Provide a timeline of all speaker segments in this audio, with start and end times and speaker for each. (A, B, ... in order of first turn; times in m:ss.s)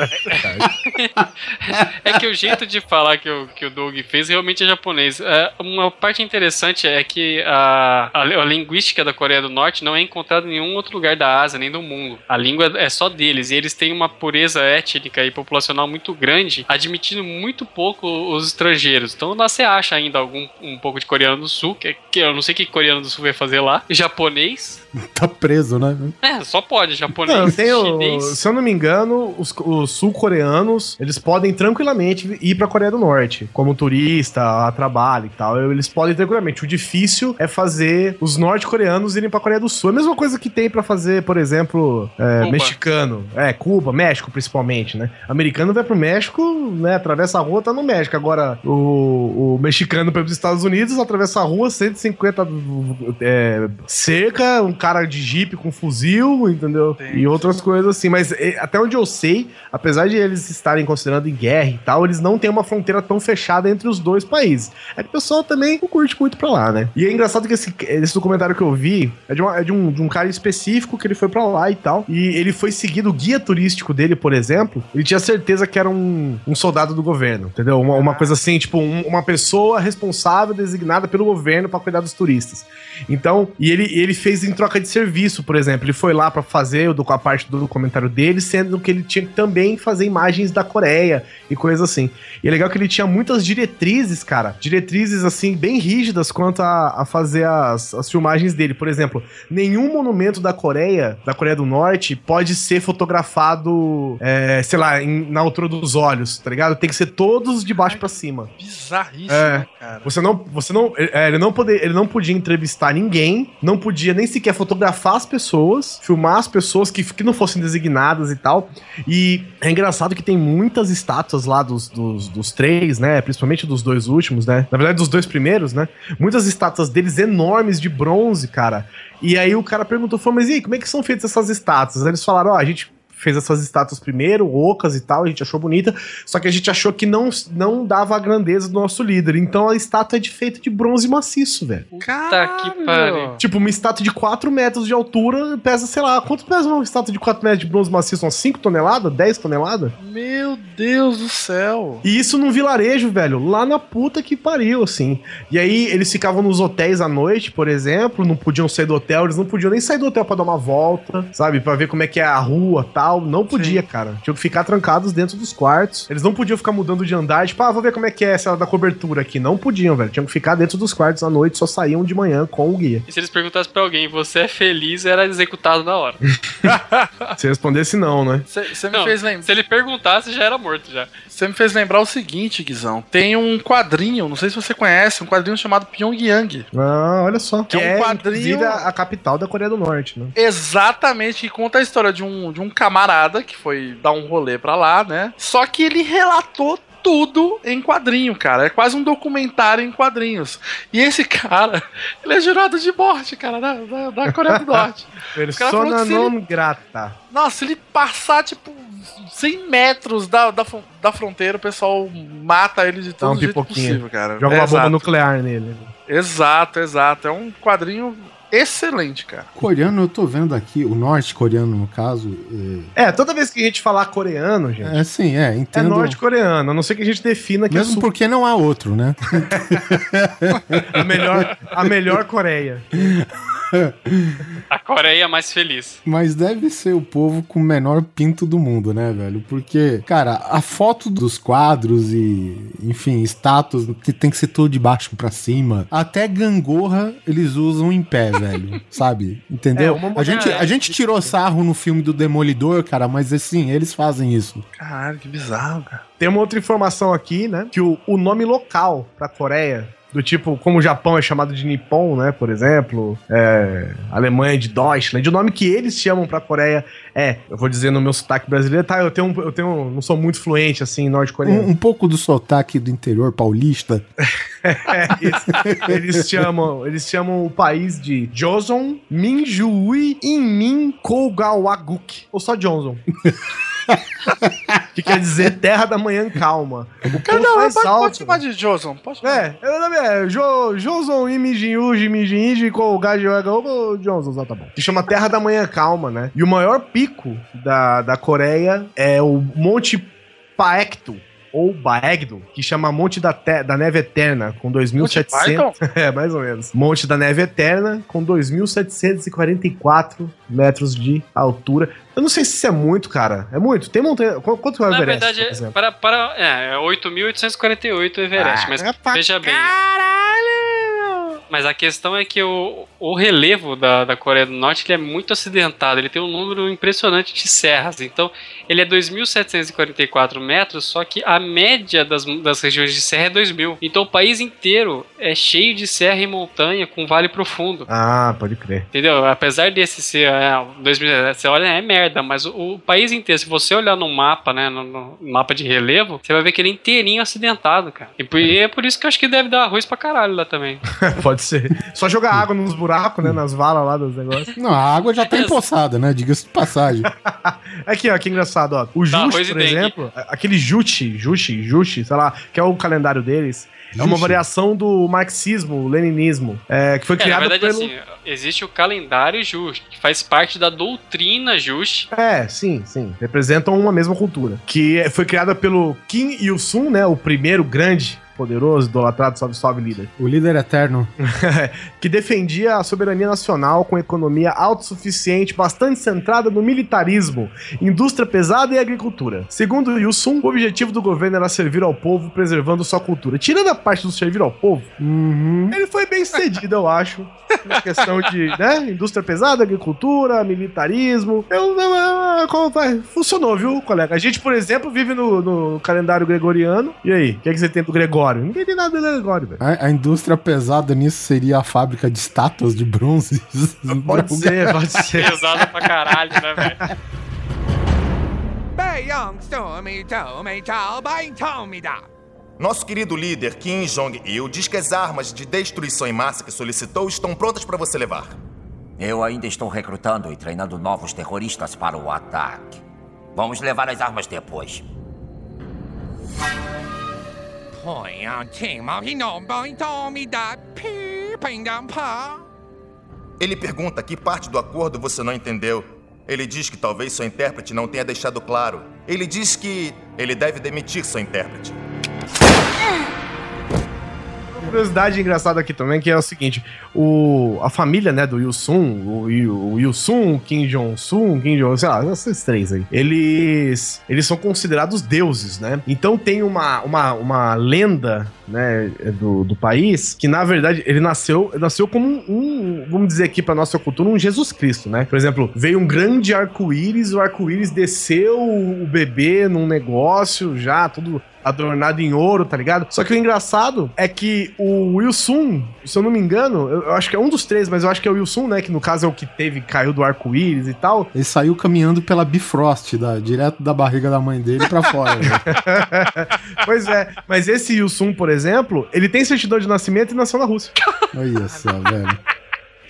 0:00.3-0:00.7 A
0:00.9-0:24.8 B
0:25.0-0:26.1 C
0:26.2-0:28.4 B
0:27.2-1:48.5 A
0:42.4-0:42.8 B
0:57.0-0:57.6 D
1:17.9-1:18.4 D
1:47.8-1:50.1 D
1:49.3-2:21.9 A
2:21.9-2:23.4 D
2:22.3-2:23.3 B
2:23.4-2:29.9 A
2:30.0-2:32.0 D
2:32.0-2:53.0 A
2:43.5-2:43.8 D
2:53.1-2:56.2 B
2:56.7-2:57.3 D
2:57.4-2:58.5 A
2:58.5-2:59.5 D
2:58.9-3:01.1 B
3:01.3-3:06.7 D
3:06.7-3:10.3 A
3:07.7-3:08.9 D
3:10.4-3:26.3 D
3:24.3-3:24.8 A
3:25.3-3:27.2 A
3:27.3-3:35.1 D
3:33.2-3:35.9 A
3:36.1-3:39.5 D
3:39.6-3:42.9 C
3:43.0-3:45.0 A
3:44.8-3:46.2 C
3:45.7-3:48.1 A
3:47.7-3:51.2 C
3:50.9-3:53.1 A
3:53.0-3:54.5 C
3:54.7-3:56.0 B
3:56.0-4:14.6 C
4:09.7-4:11.3 A
4:10.3-4:10.7 B
4:14.8-4:16.0 D
4:16.2-4:31.7 A
4:31.4-4:34.0 C
4:34.6-4:43.0 A
4:35.5-4:36.2 C
4:43.9-4:44.8 C
4:44.9-4:48.4 A
4:47.3-4:49.5 D
4:49.2-5:15.7 A
5:05.0-5:05.7 D
5:14.9-5:19.7 B
5:18.4-5:21.1 A
5:21.5-5:37.9 B
5:37.9-5:38.9 A
5:38.9-5:50.8 B
5:51.0-5:54.5 A
5:54.6-5:57.1 C
5:55.3-5:55.6 B
5:57.1-6:07.9 A
5:59.1-5:59.9 B
6:03.9-6:04.4 C
6:07.2-6:12.1 B
6:12.1-6:20.1 A
6:20.2-6:21.1 C
6:21.3-6:34.9 A
6:35.0-6:35.8 C
6:35.7-6:49.6 A
6:49.6-6:54.8 C
6:54.0-6:55.7 A
6:55.2-6:56.8 B
6:58.7-7:02.0 E
7:02.6-7:08.4 F
7:09.0-7:12.8 G
7:13.3-7:14.8 G
7:17.7-7:22.4 E
7:23.4-7:31.8 F
7:34.6-8:11.1 A
8:11.1-8:15.4 C
8:15.2-8:20.7 A
8:21.1-8:22.2 C